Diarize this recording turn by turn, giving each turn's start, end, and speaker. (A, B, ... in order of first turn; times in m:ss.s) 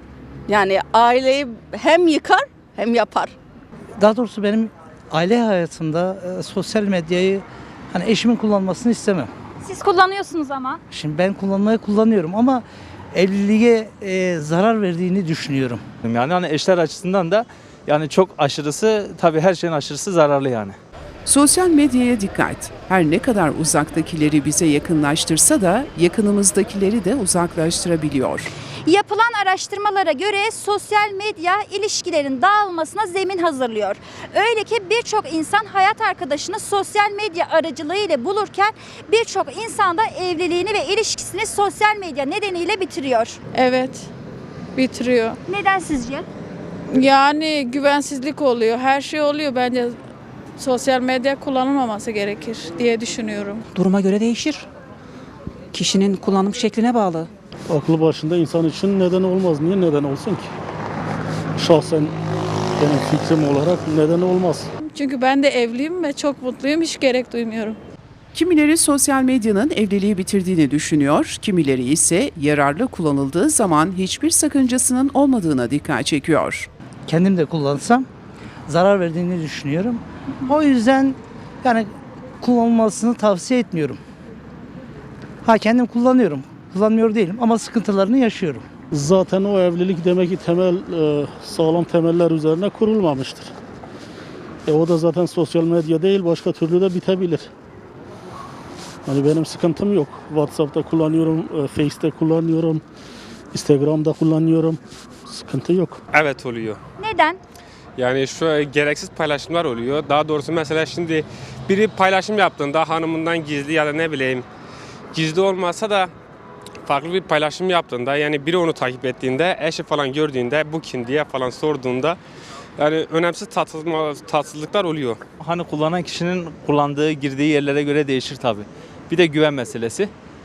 0:00.5-0:03.3 A
0:04.0-0:09.3 B
0:09.6-0:10.8 C
0:10.9-0:15.8 B
0:16.0-0:20.8 D
0:21.2-0:28.5 E
0:28.8-0:43.4 C
0:43.5-0:44.1 F
0:44.8-0:45.4 F
0:45.5-0:46.2 C
0:46.9-0:50.0 F
0:50.6-0:53.6 F
0:53.7-0:54.7 G
0:55.7-0:57.3 G
0:57.7-1:00.5 H
1:01.6-1:02.1 H
1:02.8-1:04.7 H
1:04.9-1:07.8 F
1:08.3-1:16.7 E
1:17.1-1:18.1 B
1:18.6-1:24.0 B
1:25.4-1:28.6 B
1:28.9-1:33.5 H
1:34.6-1:37.5 H
1:39.0-1:42.8 H
1:43.5-1:46.0 H
1:46.1-1:46.8 I
1:47.0-1:47.4 C
1:48.0-1:54.4 I
1:55.1-1:56.1 I
1:56.8-2:02.2 I
2:02.8-2:05.2 I
2:05.4-2:10.1 D